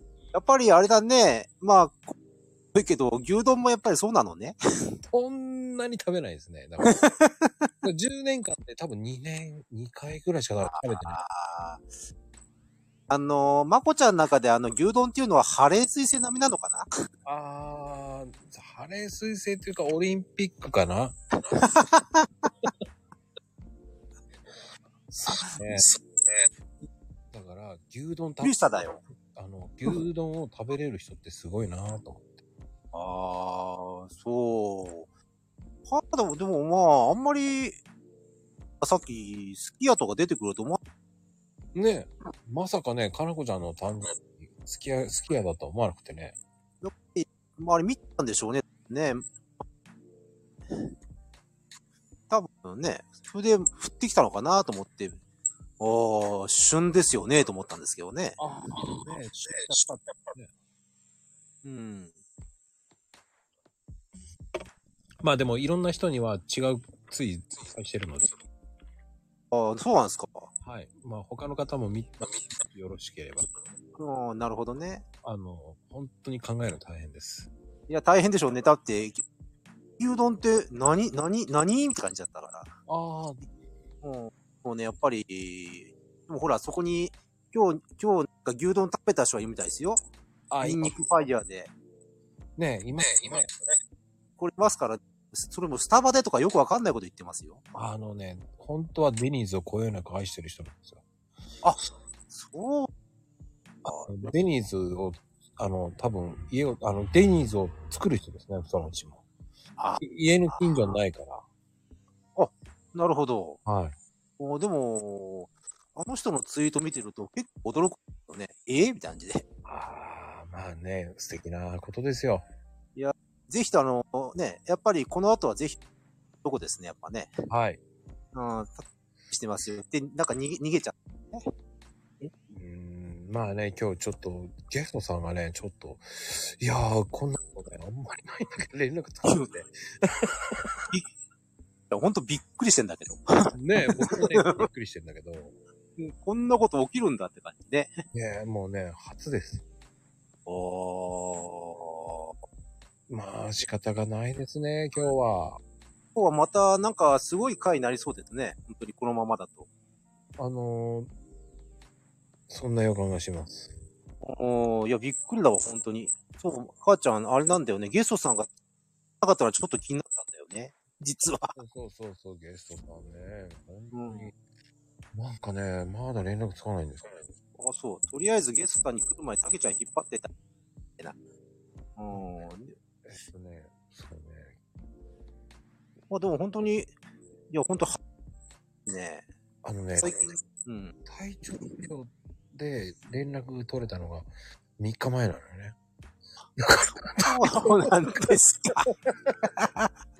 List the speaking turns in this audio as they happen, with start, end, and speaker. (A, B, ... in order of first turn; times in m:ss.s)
0:00.3-0:02.1 A
0:02.7-0:04.6 A
0:05.0-0:07.0 B
0:06.8-0:07.7 A
0:07.8-0:11.2 B
0:10.7-0:11.8 A
0:13.1-0:16.9 A
0:17.2-0:21.2 B
0:21.5-0:22.3 A
0:25.1-0:25.8 B
0:25.3-0:26.0 A
0:27.3-0:28.6 B
0:28.4-0:29.0 A
0:29.3-0:32.3 B
0:32.9-0:35.1 A
0:35.9-0:37.8 A
0:38.8-0:40.8 A
0:41.7-0:46.4 B
0:46.8-0:49.2 A
0:52.3-0:55.2 A
0:55.8-0:58.4 A
0:58.4-1:00.5 B
0:59.4-0:59.8 A
1:01.6-1:02.1 A
1:05.2-1:08.4 B
1:09.5-1:10.5 A
1:10.6-1:13.4 B
1:14.0-1:15.0 A
1:15.2-1:17.5 B
1:17.9-1:19.2 A
1:20.0-1:22.7 A
1:22.9-1:23.4 B
1:24.0-1:30.0 A
1:30.5-1:31.0 B
1:30.6-1:31.7 A
1:32.6-1:33.5 B
1:34.4-1:37.6 A
1:37.7-1:41.0 B
1:41.6-1:42.9 A
1:43.8-1:44.3 A
1:44.0-1:49.2 B
1:49.8-1:50.6 A
1:50.0-1:51.4 B
1:52.4-1:53.6 A
1:53.6-1:54.0 B
1:54.4-1:59.4 A
1:59.6-2:02.4 B
2:03.0-2:05.8 A
2:06.4-2:07.3 A
2:07.5-2:07.8 B
2:08.3-2:11.5 A
2:12.2-2:20.8 B
2:19.2-2:19.5 A
2:21.9-2:24.6 A
2:23.5-2:25.6 B
2:26.0-2:27.9 A
2:28.1-2:29.6 B
2:30.4-2:32.3 A
2:33.1-2:35.6 B
2:36.1-2:39.7 A
2:40.4-2:41.1 B
2:42.5-2:43.7 B
2:44.2-2:48.5 A
2:49.2-2:51.5 A
2:51.5-2:54.3 B
2:53.9-2:54.3 A
2:55.1-2:57.2 B
2:57.6-3:00.3 A
3:02.0-3:02.7 A
3:03.0-3:04.5 B
3:06.1-3:06.9 A
3:07.5-3:08.0 A
3:08.8-3:09.2 A
3:09.6-3:10.2 B
3:10.0-3:10.9 A
3:11.0-3:15.8 B
3:16.6-3:18.3 B
3:17.2-3:18.9 A
3:19.1-3:19.4 B
3:19.6-3:19.9 A